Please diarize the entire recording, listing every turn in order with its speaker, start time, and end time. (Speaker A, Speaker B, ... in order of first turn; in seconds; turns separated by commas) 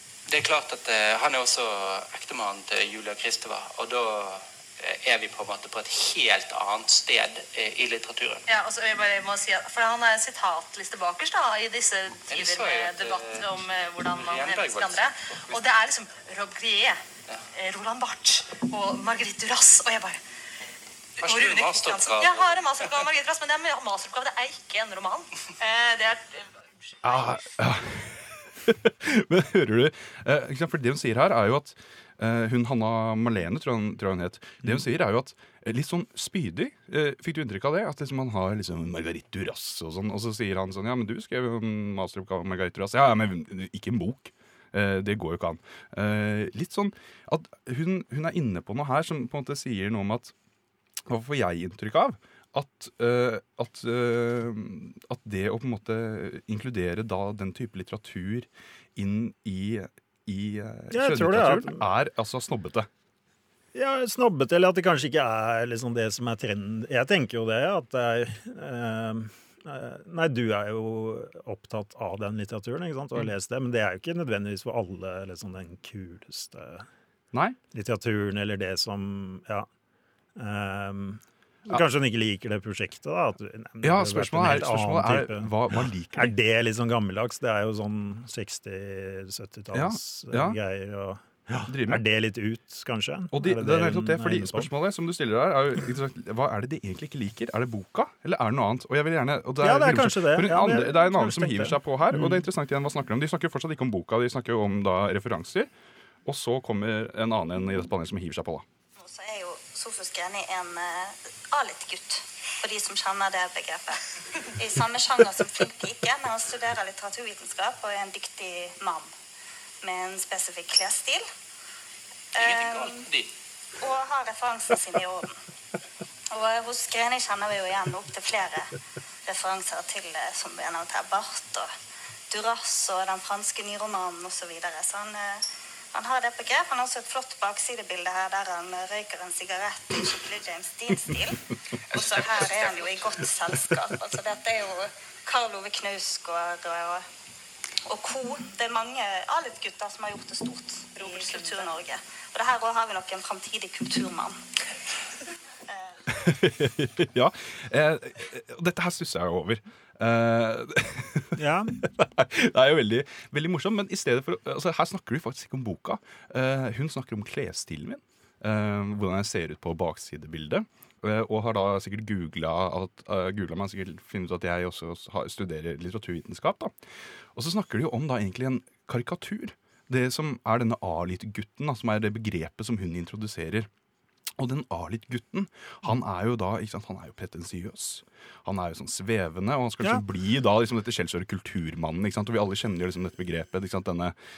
Speaker A: 0.3-8.4, Speaker B: 8.5-20.2, Speaker A: 12.3-15.6, Speaker A: 21.2-23.0, Speaker B: 21.2-26.4, Speaker C: 27.0-50.3, Speaker B: 27.0-27.4, Speaker C: 51.1-62.9, Speaker D: 60.9-61.8, Speaker D: 63.7-76.9, Speaker D: 77.7-79.7, Speaker D: 80.3-85.5, Speaker C: 83.8-86.3, Speaker D: 86.1-94.7, Speaker C: 89.7-90.6, Speaker C: 91.6-92.0, Speaker C: 93.3-105.7, Speaker D: 99.6-102.5, Speaker C: 106.2-108.6, Speaker E: 109.0-119.1, Speaker E: 119.8-121.2, Speaker E: 122.3-123.1, Speaker A: 122.4-123.3, Speaker E: 123.8-125.4, Speaker E: 126.3-131.7, Speaker E: 132.3-147.0, Speaker A: 142.0-142.7, Speaker E: 147.8-154.4, Speaker B: 150.9-151.7, Speaker C: 156.1-176.7, Speaker D: 161.3-161.7, Speaker C: 177.3-183.7, Speaker C: 184.4-194.1